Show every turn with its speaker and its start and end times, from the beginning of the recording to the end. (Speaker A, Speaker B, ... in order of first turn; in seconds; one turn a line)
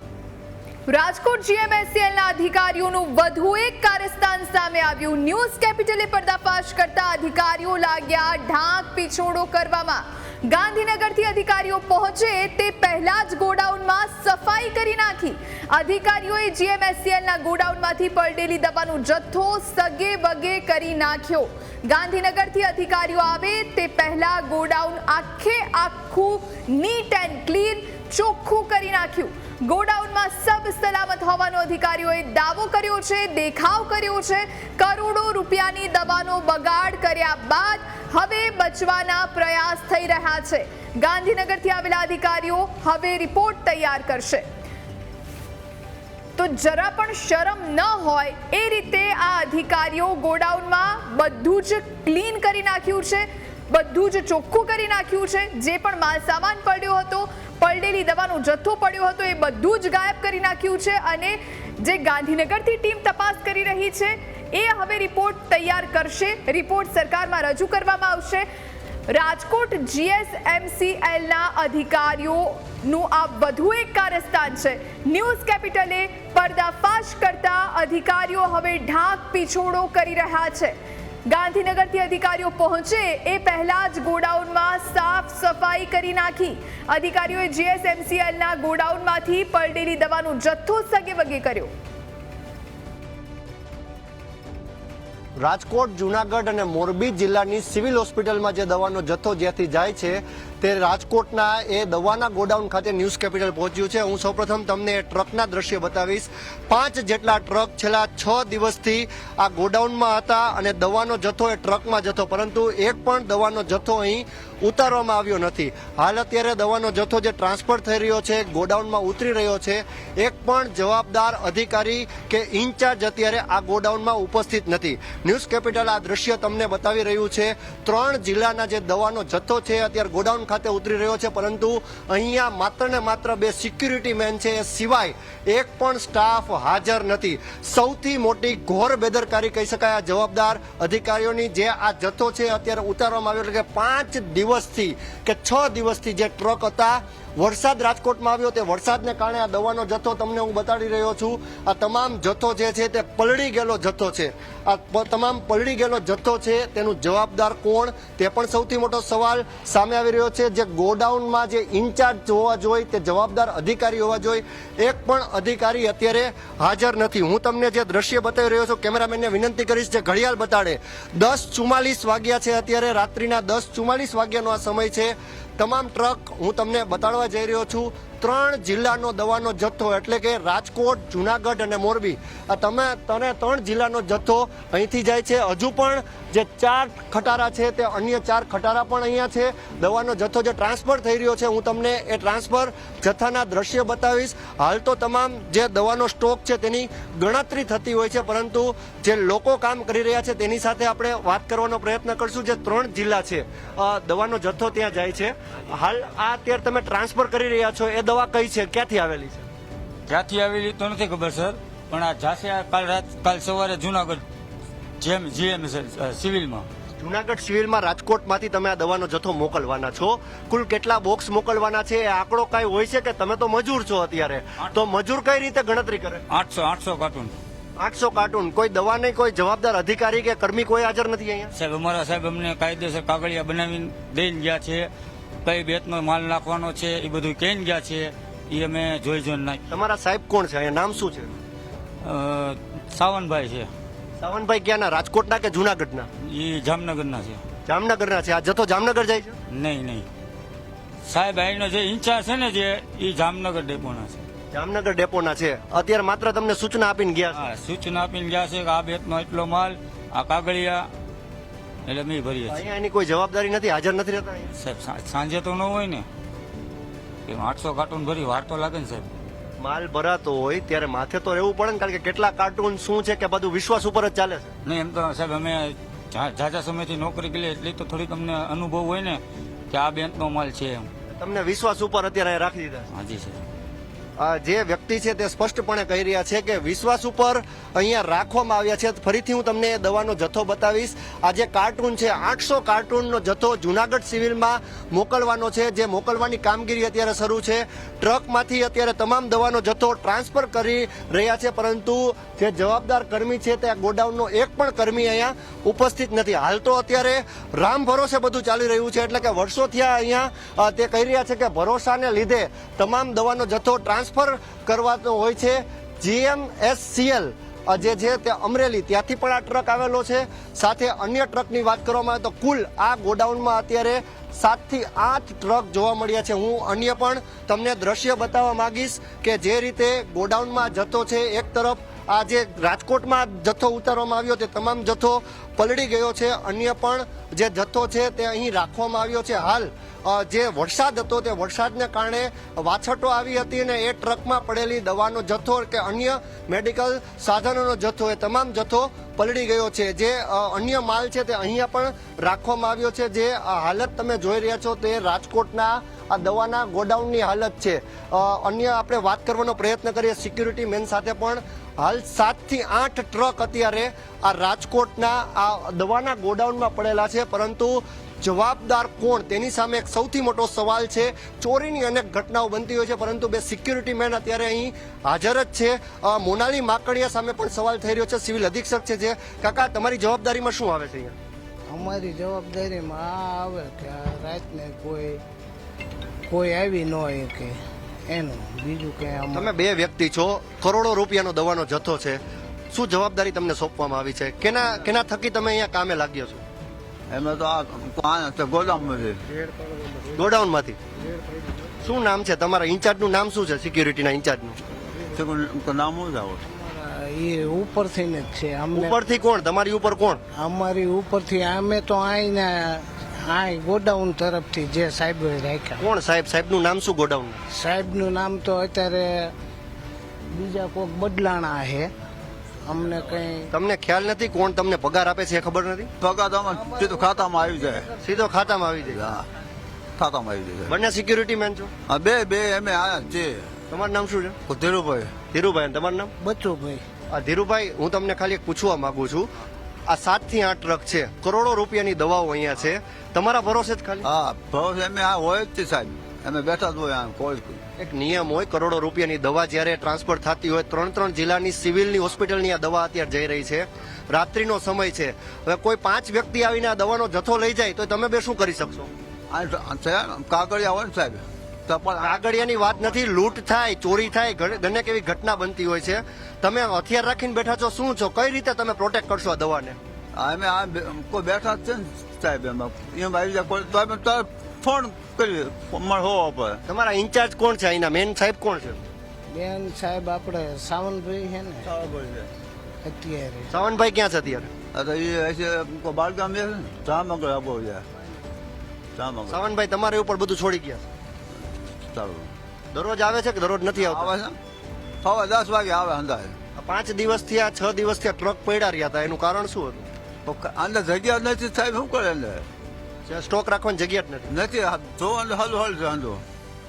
Speaker A: 0.9-44.4
Speaker A: 46.4-68.5
Speaker A: 69.1-80.8
Speaker A: 81.3-91.7
Speaker B: 95.4-209.5
Speaker C: 210.1-214.2
Speaker C: 215.0-216.7
Speaker B: 217.0-226.2
Speaker C: 226.3-227.3
Speaker B: 227.8-231.5
Speaker C: 231.5-234.9
Speaker C: 235.4-239.6
Speaker B: 239.7-241.3
Speaker C: 242.0-243.7
Speaker B: 244.2-246.1
Speaker C: 246.2-247.4
Speaker B: 247.7-249.3
Speaker C: 249.5-250.1
Speaker C: 251.1-254.2
Speaker B: 254.5-257.4
Speaker C: 257.3-260.9
Speaker C: 261.9-262.6
Speaker B: 262.5-264.5
Speaker C: 264.6-266.1
Speaker C: 267.3-269.1
Speaker B: 269.6-274.5
Speaker C: 274.6-280.9
Speaker B: 281.2-282.9
Speaker C: 282.9-283.4
Speaker B: 284.2-381.1
Speaker D: 381.7-385.2
Speaker D: 386.3-389.4
Speaker B: 389.3-392.2
Speaker B: 392.7-396.4
Speaker E: 397.1-399.2
Speaker B: 400.1-400.8
Speaker B: 401.8-404.6
Speaker E: 405.1-406.4
Speaker D: 406.5-408.9
Speaker B: 408.7-410.2
Speaker D: 410.4-415.8
Speaker B: 415.8-417.4
Speaker D: 417.5-419.3
Speaker D: 420.3-421.9
Speaker D: 422.6-423.5
Speaker B: 423.5-425.9
Speaker E: 426.0-427.9
Speaker D: 426.5-428.1
Speaker B: 428.0-429.1
Speaker E: 428.8-429.3
Speaker E: 430.0-430.8
Speaker B: 430.7-431.7
Speaker E: 431.9-433.5
Speaker B: 433.7-434.4
Speaker E: 434.5-435.1
Speaker B: 435.3-436.1
Speaker D: 436.2-436.8
Speaker B: 437.1-439.3
Speaker B: 439.9-444.1
Speaker E: 444.0-447.6
Speaker B: 447.8-458.9
Speaker E: 459.3-462.2
Speaker B: 462.0-469.8
Speaker E: 470.1-476.6
Speaker B: 476.7-478.8
Speaker D: 479.3-481.7
Speaker E: 481.6-482.3
Speaker D: 482.8-483.5
Speaker B: 483.5-484.5
Speaker E: 484.7-487.8
Speaker E: 488.9-489.4
Speaker B: 489.3-490.9
Speaker E: 491.9-492.3
Speaker B: 492.7-494.1
Speaker E: 493.8-494.4
Speaker E: 495.0-496.4
Speaker B: 496.6-499.9
Speaker E: 500.2-502.5
Speaker B: 503.1-504.3
Speaker E: 504.3-506.2